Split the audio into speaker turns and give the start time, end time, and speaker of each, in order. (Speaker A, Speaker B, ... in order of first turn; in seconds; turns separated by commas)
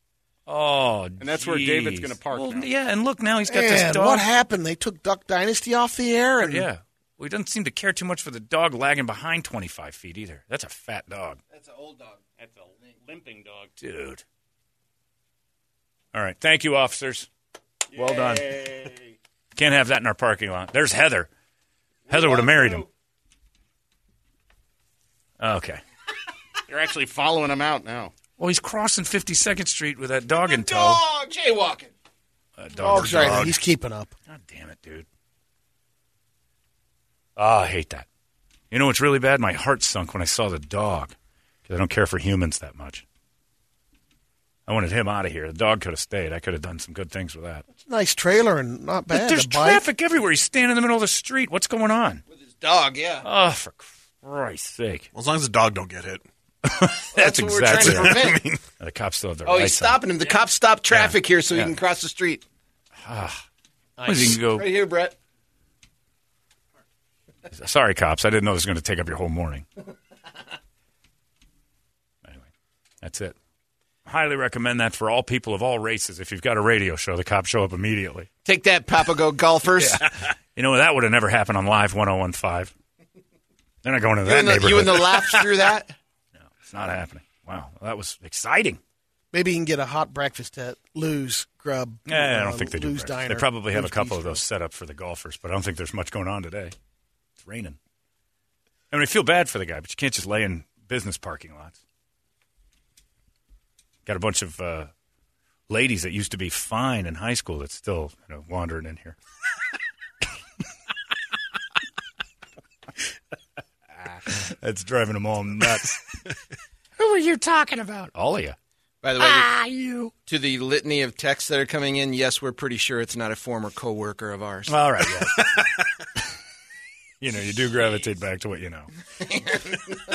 Speaker A: 0.5-4.2, Speaker B: 1.2-2.7, Speaker C: 3.5-6.7, Speaker A: 6.4-11.4, Speaker D: 11.5-12.2, Speaker B: 12.4-13.7, Speaker A: 13.8-14.2, Speaker A: 16.1-17.3, Speaker A: 17.9-18.6, Speaker B: 17.9-19.1, Speaker A: 19.6-21.3, Speaker A: 22.1-22.9, Speaker A: 25.4-25.8, Speaker B: 26.7-28.1, Speaker A: 28.4-31.0, Speaker D: 30.4-31.9, Speaker A: 32.6-33.5, Speaker C: 32.8-34.1, Speaker E: 32.9-33.6, Speaker A: 34.3-35.0, Speaker A: 37.4-38.0, Speaker A: 38.7-41.1, Speaker A: 41.6-43.0, Speaker A: 44.7-47.6, Speaker C: 47.8-49.8, Speaker A: 49.1-52.2, Speaker D: 52.5-53.2, Speaker A: 53.2-55.1, Speaker E: 55.1-56.2, Speaker A: 56.6-60.0, Speaker D: 57.1-58.4, Speaker E: 57.6-58.6, Speaker D: 59.4-62.4, Speaker A: 60.9-61.7, Speaker A: 63.0-63.4, Speaker D: 64.0-65.1, Speaker A: 64.0-64.8, Speaker A: 67.5-69.7, Speaker A: 73.0-73.3, Speaker A: 74.0-78.3, Speaker D: 78.4-80.1, Speaker A: 79.8-82.7, Speaker A: 83.8-85.5, Speaker D: 84.2-85.9, Speaker A: 86.4-88.8, Speaker C: 89.3-94.4, Speaker A: 92.1-96.7, Speaker A: 97.4-97.8, Speaker A: 98.9-101.8, Speaker A: 104.0-104.9, Speaker A: 105.7-109.2, Speaker A: 114.1-116.0, Speaker A: 117.0-118.5, Speaker D: 119.0-119.5, Speaker A: 119.2-120.1, Speaker D: 120.2-124.7, Speaker A: 124.7-125.7, Speaker A: 127.2-128.9